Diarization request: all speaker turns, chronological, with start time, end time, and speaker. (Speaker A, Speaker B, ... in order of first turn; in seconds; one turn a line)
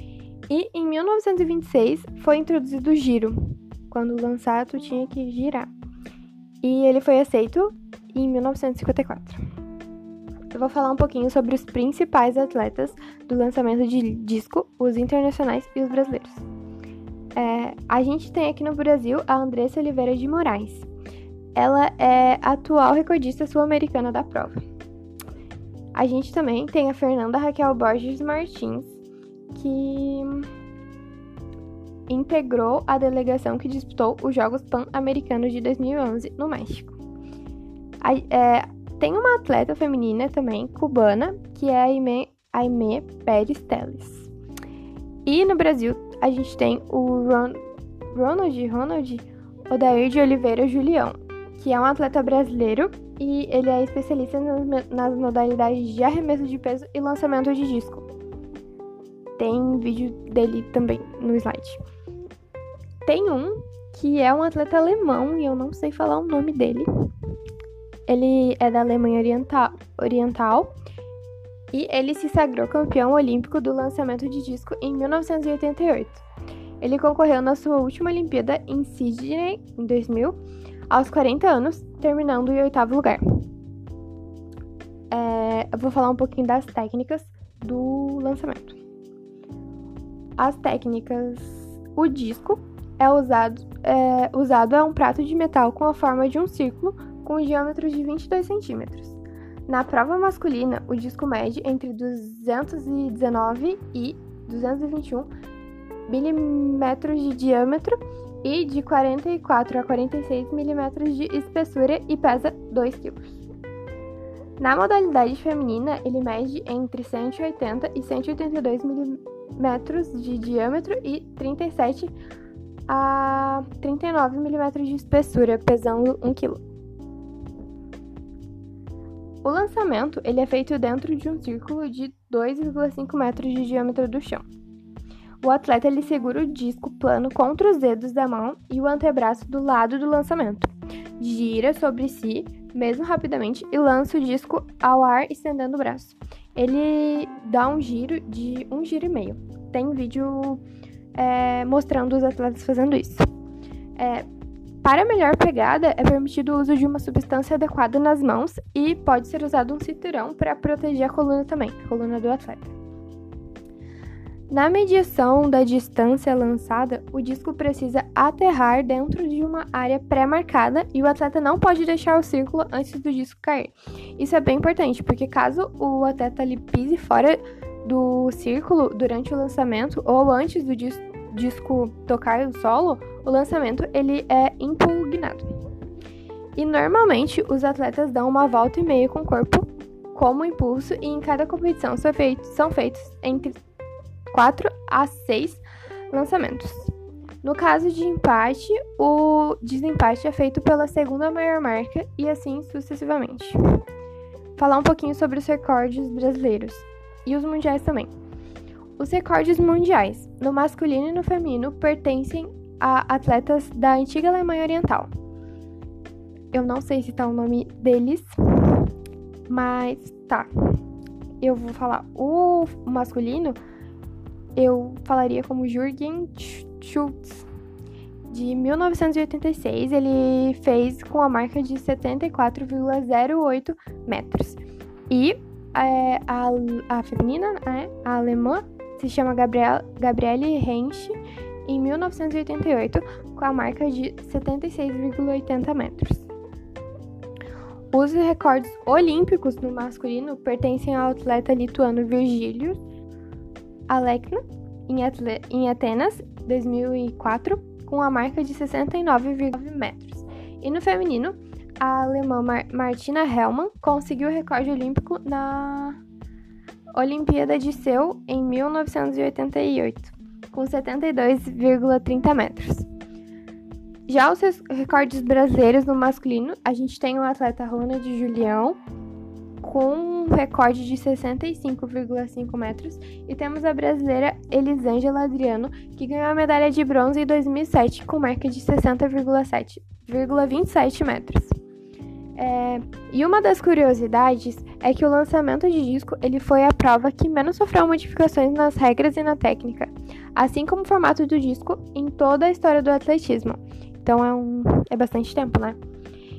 Speaker A: 0.5-5.7
Speaker A: 6.6-9.4
Speaker A: 10.5-16.4
Speaker A: 17.4-20.9
Speaker A: 21.5-24.6
Speaker A: 25.9-29.0
Speaker A: 29.5-30.5
Speaker A: 32.1-36.9
Speaker A: 38.0-44.3
Speaker A: 45.2-58.0
Speaker A: 59.4-61.8
Speaker A: 63.0-66.9
Speaker A: 68.1-70.7
Speaker A: 71.7-76.2
Speaker A: 76.8-80.4
Speaker A: 80.9-83.4
Speaker A: 85.1-88.8
Speaker A: 90.4-105.3
Speaker A: 106.1-113.4
Speaker A: 114.6-122.1
Speaker A: 122.9-126.6
Speaker A: 129.4-134.4
Speaker A: 135.4-150.6
Speaker A: 151.1-153.2
Speaker A: 154.0-154.3
Speaker A: 154.8-162.7
Speaker A: 164.5-185.4
Speaker A: 186.6-193.5
Speaker A: 194.3-196.9
Speaker A: 197.4-203.6
Speaker A: 204.6-208.1
Speaker A: 209.0-215.1
Speaker A: 216.5-218.9
Speaker A: 219.5-220.5
Speaker A: 221.4-223.6
Speaker A: 224.6-227.4
Speaker A: 228.3-246.3
Speaker A: 247.9-252.8
Speaker A: 253.9-266.0
Speaker A: 266.9-272.9
Speaker A: 274.1-278.8
Speaker A: 279.6-291.5
Speaker A: 292.4-305.8